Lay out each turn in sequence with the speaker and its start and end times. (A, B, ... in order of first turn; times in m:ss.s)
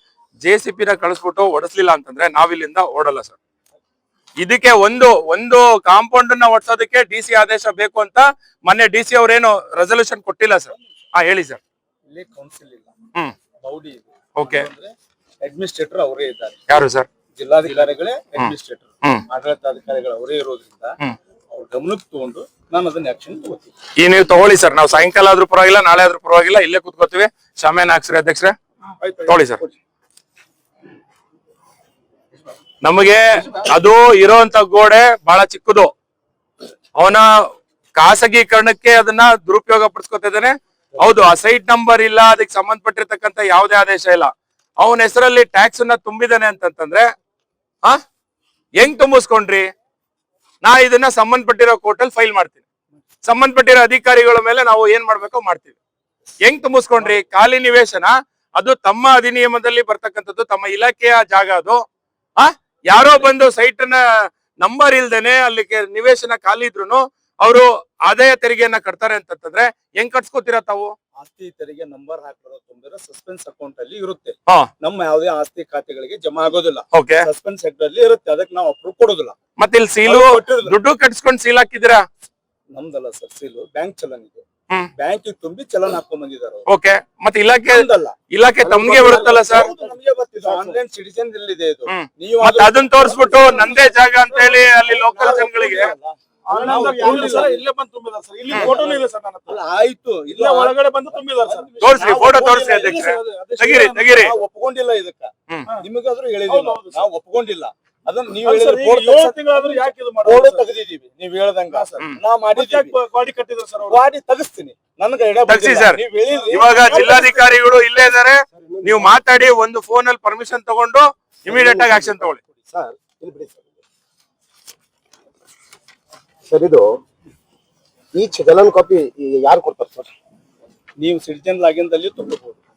0:00.4-0:03.4 A
0:04.4-0:11.6 A
0:12.1-0:13.0 B
0:13.6-0:16.8 B
0:14.4-0:14.7 A
0:16.7-0:17.1 A
0:17.4-0:21.0 B
0:21.5-0:23.8 B
0:24.0-0:28.6 A
0:29.0-0:29.8 B
0:29.3-0:29.6 A
0:32.8-0:35.9 A
0:37.0-0:37.2 A
0:38.0-0:47.1 A
0:48.8-0:49.6 A
0:50.6-0:52.6 A
0:53.2-0:55.7 A
0:56.4-1:01.8 A
1:02.4-1:04.0 A
1:04.6-1:11.0 A
1:11.2-1:19.4 B
1:16.9-1:17.3 A
1:19.6-1:22.0 A
1:20.0-1:20.8 B
1:22.7-1:26.7 B
1:26.7-1:29.7 A
1:27.7-1:28.2 B
1:28.6-1:30.8 C
1:28.9-1:34.0 B
1:31.9-1:35.9 A
1:34.3-1:34.6 D
1:34.6-1:37.6 B
1:36.5-1:39.6 D
1:38.5-1:38.8 A
1:38.6-1:53.0 B
1:40.3-1:41.7 D
1:41.8-1:44.4 A
1:42.8-1:44.0 D
1:45.5-1:45.8 A
1:46.5-1:47.0 D
1:48.4-1:50.7 D
1:51.7-1:52.0 D
1:52.5-1:54.0 D
1:53.9-1:57.5 B
1:55.5-2:02.4 A
1:56.8-1:57.2 D
1:58.5-1:59.2 C
2:01.5-2:02.1 C
2:02.7-2:03.8 C
2:06.5-2:06.9 C
2:08.1-2:10.1 C
2:11.0-2:12.6 B